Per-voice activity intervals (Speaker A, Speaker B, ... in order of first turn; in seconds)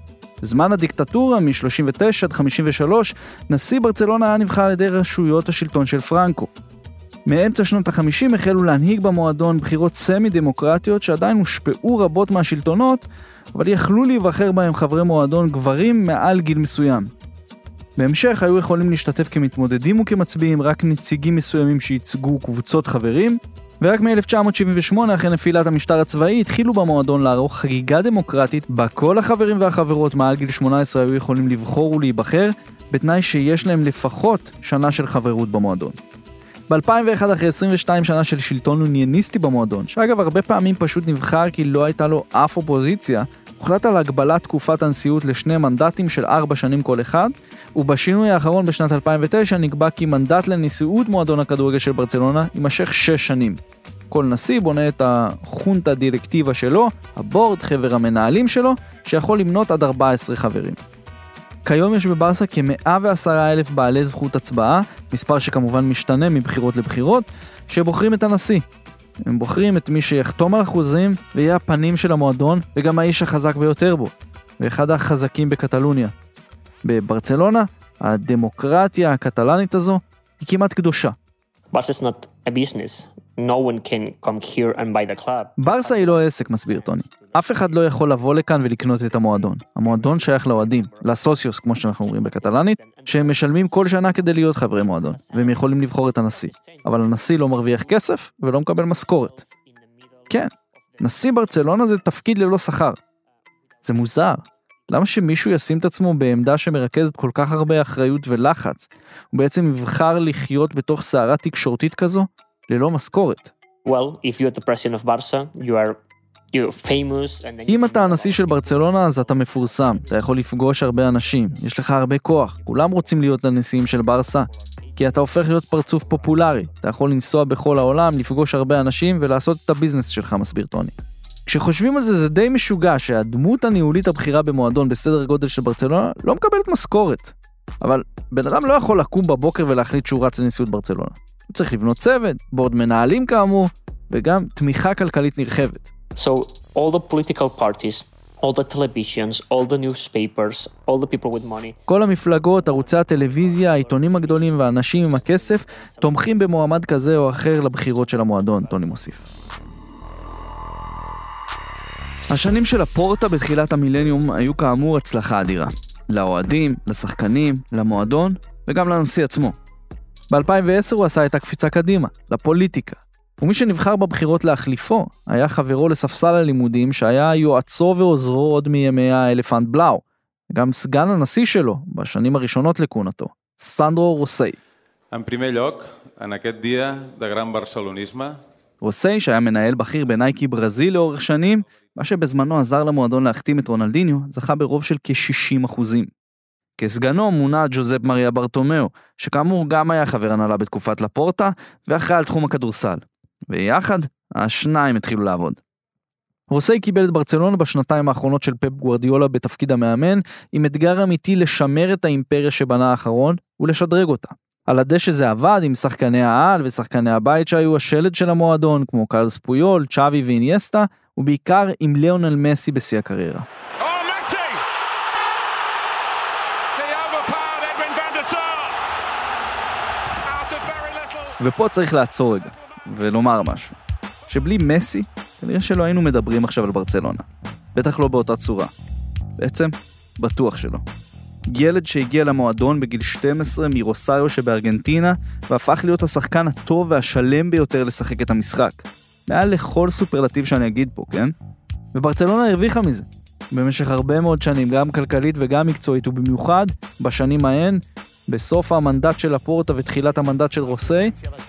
Speaker A: 0.4-6.5, 7.2-17.1, 18.0-36.0, 36.7-60.8, 61.6-68.6, 69.2-76.1, 76.8-81.2, 85.6-99.4, 100.3-103.0, 103.8-113.5, 117.7-145.9, 151.9-159.2, 162.3-169.6, 170.3-184.6, 188.8-196.1, 196.8-205.6, 206.5-223.5, 231.4-238.7, 239.4-240.8, 241.5-251.3, 251.9-261.1
Speaker B: 81.7-102.0, 103.4-104.4, 113.8-116.0, 116.5-127.0, 146.1-159.5
Speaker C: 185.1-188.4